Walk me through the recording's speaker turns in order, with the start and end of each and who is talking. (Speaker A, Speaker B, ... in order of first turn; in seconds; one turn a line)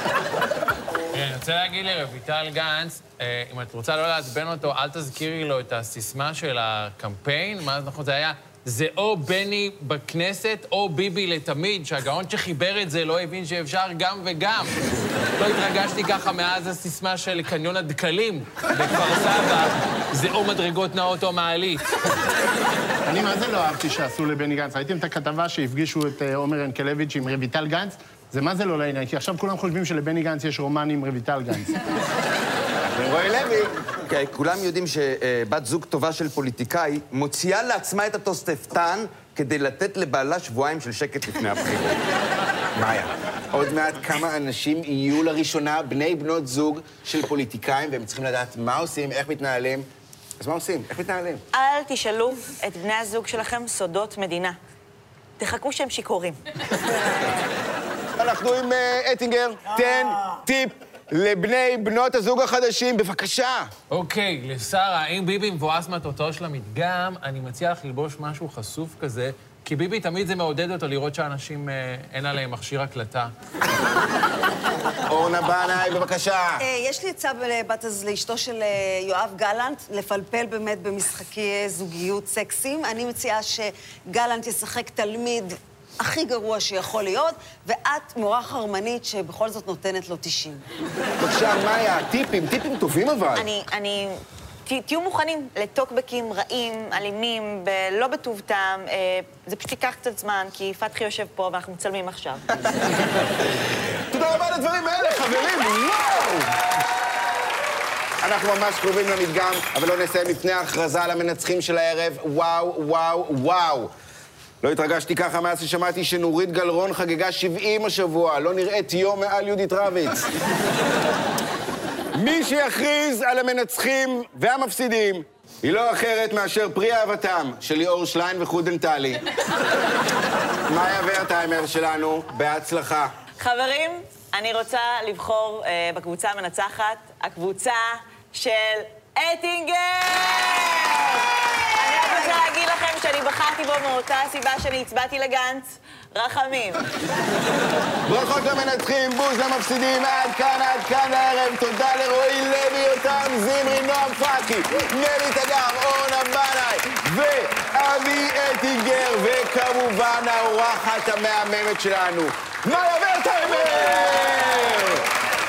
Speaker A: 1.1-21.9
Speaker B: 23.1-31.8
Speaker C: 32.8-33.8
Speaker D: 34.0-42.0
Speaker C: 42.7-49.9
Speaker C: 50.4-51.4
Speaker E: 51.5-54.6
Speaker E: 55.4-56.4
Speaker C: 58.2-63.7
Speaker A: 63.9-73.3
Speaker C: 75.0-76.6
Speaker F: 76.6-90.6
Speaker C: 91.2-93.4
Speaker E: 93.3-102.5
Speaker C: 103.9-106.5
Speaker C: 108.2-113.9
Speaker C: 114.6-120.3
Speaker C: 122.1-129.2
Speaker C: 130.7-133.1
Speaker E: 133.4-146.8
Speaker F: 142.0-142.4
Speaker C: 148.1-165.1